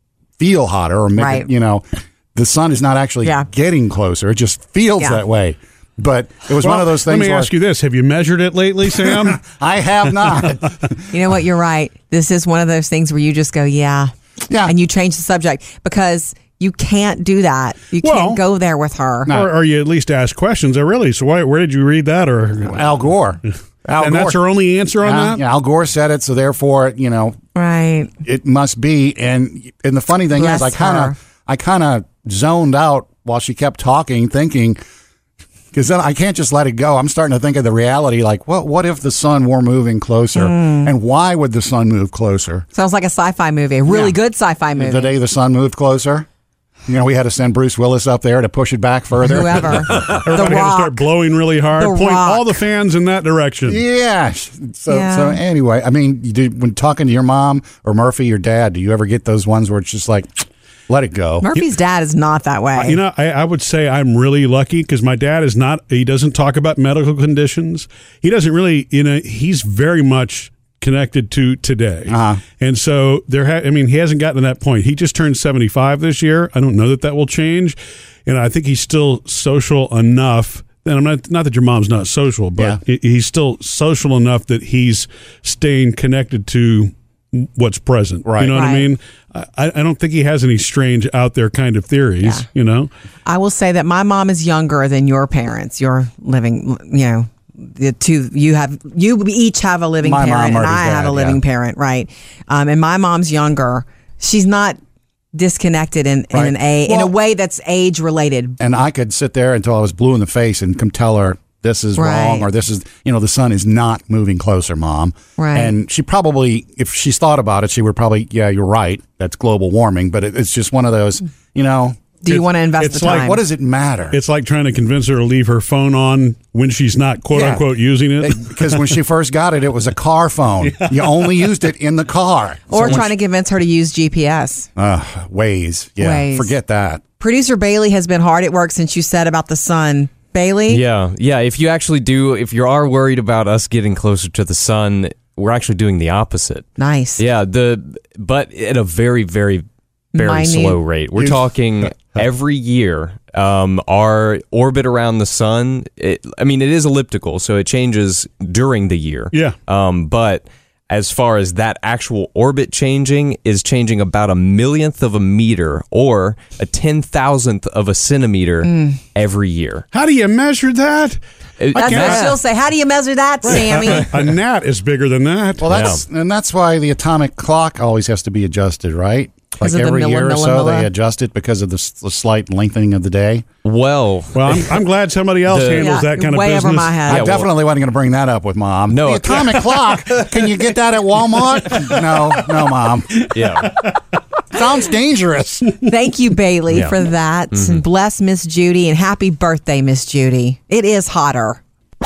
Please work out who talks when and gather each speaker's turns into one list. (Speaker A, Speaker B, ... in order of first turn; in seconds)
Speaker A: 0.4-7.5, 9.0-11.1, 14.5-14.7, 19.2-19.5, 22.7-24.4, 25.0-27.4, 28.2-34.8, 35.7-42.7, 43.9-44.2, 44.8-46.2, 46.9-50.0, 53.7-60.3, 60.9-61.5, 72.1-72.4, 88.2-88.6, 100.0-101.4, 106.3-107.1, 108.6-122.0, 123.0-124.2, 127.3-127.6, 128.2-133.1, 134.8-137.0, 175.6-183.4, 187.1-193.3, 194.5-195.8
Speaker B: 1.2-1.5, 11.1-14.1, 14.6-19.3, 27.5-28.1, 30.3-31.1, 40.3-40.9, 42.7-45.1, 49.2-51.1, 51.8-52.6, 54.9-55.4, 61.4-63.0, 88.5-88.9, 93.2-104.8, 105.3-108.6, 112.0-112.5, 115.4-115.8, 122.2-123.4, 132.7-134.7, 136.0-136.5, 137.2-140.8, 146.8-147.2, 150.2-150.8, 171.7-174.1, 179.6-180.9, 185.7-187.4, 195.8-201.6
Speaker C: 6.5-9.4, 18.0-18.4, 19.3-22.9, 23.9-25.4, 49.9-53.8, 62.7-92.9, 122.3-123.3, 124.1-128.8, 130.8-131.3, 159.3-159.6, 169.9-171.2, 171.7-172.3, 173.4-175.7, 184.3-187.1
Speaker D: 140.7-169.8, 171.6-172.4, 175.7-176.0, 183.6-184.7, 185.5-185.9, 187.1-187.5, 188.9-189.8, 193.3-193.8, 196.7-197.0, 197.5-197.8